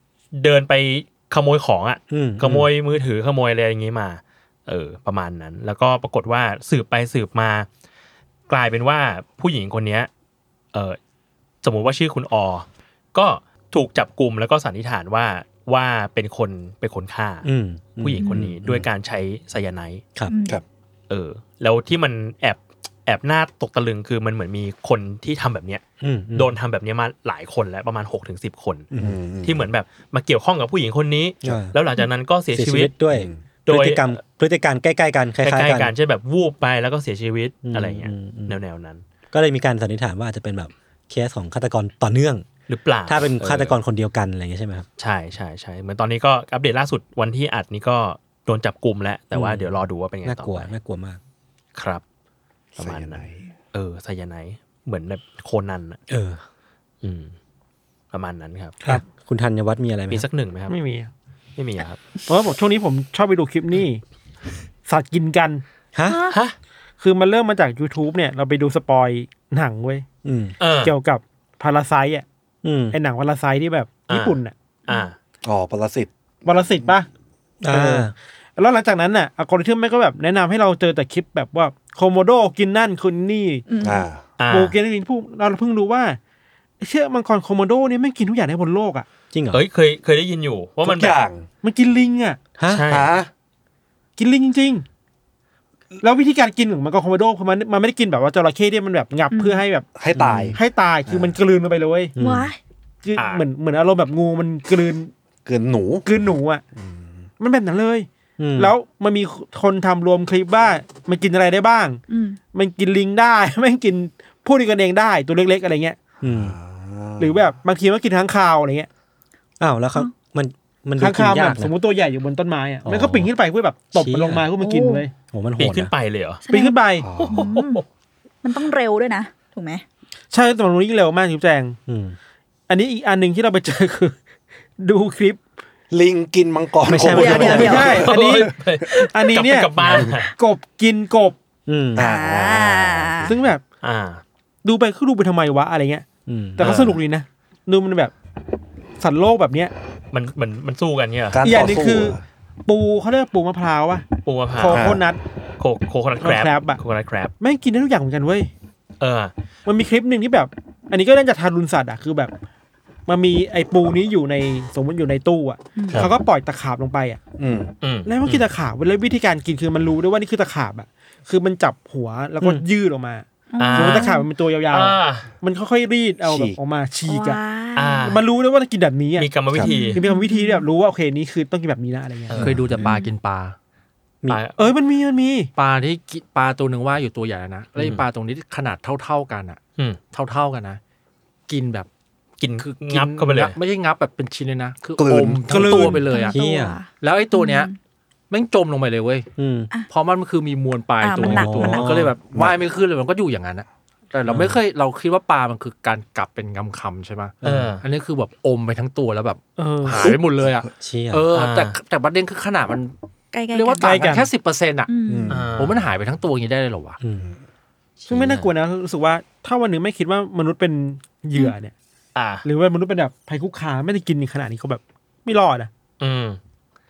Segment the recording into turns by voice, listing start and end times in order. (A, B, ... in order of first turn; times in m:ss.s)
0:00.3-0:07.7 A
0:02.1-0:02.7 B
0:08.5-0:10.1 A
0:11.6-0:17.5 A
0:17.4-0:18.9 B
0:18.0-0:20.0 A
0:18.2-0:18.5 C
0:20.3-0:20.6 C
0:21.1-0:25.8 A
0:26.0-0:26.5 B
0:26.4-0:28.9 A
0:28.9-0:29.2 B
0:29.0-0:29.7 D
0:29.4-0:33.0 A
0:31.4-0:31.8 B
0:32.5-0:35.9 B
0:33.1-0:33.4 D
0:33.7-0:34.1 A
0:35.4-0:39.0 A
0:37.6-0:38.6 B
0:39.3-0:42.5 B
0:42.7-0:43.8 A
0:43.1-0:44.9 B
0:45.0-0:50.7 A
0:49.3-0:49.7 B
0:50.2-0:51.2 B
0:51.8-0:52.0 A
0:52.8-0:56.0 A
0:52.8-0:53.4 D
0:56.1-0:56.4 B
0:57.0-0:57.3 A
0:58.1-0:58.8 A
0:58.8-1:00.3 B
1:00.1-1:00.8 A
1:00.7-1:01.1 E
1:01.6-1:02.0 A
1:02.3-1:04.0 E
1:04.9-1:05.6 E
1:05.9-1:06.2 B
1:06.1-1:06.4 C
1:06.3-1:06.6 A
1:07.0-1:10.0 E
1:10.2-1:10.5 B
1:10.6-1:11.0 A
1:10.8-1:12.2 E
1:12.6-1:13.0 B
1:12.9-1:14.5 E
1:14.1-1:15.2 A
1:15.4-1:17.0 D
1:16.4-1:17.1 E
1:17.6-1:18.1 B
1:17.7-1:23.7 E
1:23.7-1:24.1 C
1:23.8-1:24.2 D
1:24.4-1:24.8 A
1:24.5-1:26.2 E
1:26.8-1:29.1 E
1:29.3-1:29.6 B
1:29.5-1:31.2 A
1:30.8-1:31.5 D
1:31.6-1:32.4 E
1:32.6-1:32.8 B
1:32.7-1:33.1 A
1:32.9-1:33.3 D
1:34.2-1:34.8 E
1:36.0-1:39.9 E
1:39.3-1:39.7 C
1:40.0-1:41.4 D
1:40.1-1:40.6 B
1:40.6-1:42.1 E
1:42.2-1:42.5 B
1:42.2-1:42.6 C
1:43.0-1:45.1 E
1:43.2-1:43.4 A
1:45.5-1:46.1 D
1:46.0-1:46.6 E
1:46.8-1:47.2 D
1:47.4-1:52.0 E
1:48.4-1:48.8 B
1:52.1-1:52.4 C
1:52.5-1:56.0 E
1:56.2-1:56.6 B
1:56.2-1:57.5 D
1:57.2-1:58.9 E
1:59.6-2:01.7 B
2:01.0-2:05.1 E
2:02.8-2:03.3 B
2:04.0-2:04.5 B
2:04.6-2:05.0 C
2:05.3-2:05.9 B
2:05.6-2:06.4 A
2:06.4-2:07.8 C
2:06.5-2:07.1 E
2:07.0-2:07.5 D
2:07.2-2:07.8 A
2:08.4-2:09.8 C
2:10.3-2:11.8 E
2:11.9-2:12.2 B
2:12.7-2:14.2 E
2:14.8-2:15.4 E
2:15.9-2:18.3 D
2:16.8-2:18.0 B
2:17.0-2:18.1 C
2:17.2-2:21.4 E
2:18.0-2:20.3 A
2:19.8-2:20.2 D
2:21.7-2:22.1 B
2:22.0-2:23.4 D
2:22.0-2:23.4 C
2:23.3-2:23.6 E
2:23.8-2:24.2 A
2:24.6-2:26.1 E
2:26.3-2:26.8 B
2:26.6-2:28.1 E
2:26.6-2:27.0 A
2:29.0-2:29.7 E
2:30.1-2:31.4 A
2:31.3-2:32.2 D
2:31.4-2:35.2 E
2:34.2-2:34.9 A
2:34.7-2:35.0 D
2:35.6-2:37.3 A
2:36.2-2:36.8 E
2:37.4-2:38.5 E
2:39.0-2:39.3 A
2:39.7-2:42.3 E
2:43.1-2:47.2 E
2:45.8-2:46.1 C
2:47.4-2:47.7 D
2:47.8-2:48.4 A
2:48.1-2:57.4 E
2:53.5-2:54.3 C
2:53.6-2:54.1 A
2:54.7-2:55.3 A
2:56.2-2:56.6 D
2:57.1-2:58.2 C
2:57.8-2:58.2 A
2:58.1-3:02.4 E
2:59.2-3:00.0 A
2:59.6-3:00.7 C
3:02.3-3:02.8 A
3:02.4-3:03.6 F
3:02.4-3:02.7 D
3:02.8-3:03.1 C
3:04.3-3:04.7 A
3:04.6-3:05.5 E
3:05.6-3:09.6 F
3:10.1-3:10.8 F
3:11.5-3:11.9 F
3:12.4-3:13.6 A
3:12.6-3:16.4 F
3:15.0-3:16.0 D
3:15.5-3:16.0 E
3:15.8-3:17.8 C
3:16.3-3:16.8 B
3:16.9-3:17.7 F
3:18.3-3:19.3 F
3:19.4-3:19.7 B
3:19.9-3:33.0 F
3:21.0-3:22.0 C
3:21.2-3:22.2 B
3:22.3-3:22.6 D
3:24.3-3:24.6 B
3:27.4-3:27.7 B
3:27.4-3:27.8 A
3:29.6-3:30.1 E
3:29.9-3:30.6 D
3:30.8-3:31.3 B
3:31.3-3:31.8 A
3:33.3-3:34.0 C
3:33.5-3:35.0 F
3:33.8-3:34.3 E
3:34.9-3:35.4 C
3:35.1-3:35.5 D
3:35.3-3:35.9 A
3:35.5-3:37.0 F
3:37.0-3:37.3 B
3:38.1-3:41.7 E
3:38.1-3:38.4 D
3:42.2-3:42.4 A
3:42.4-3:45.7 E
3:46.0-3:46.4 A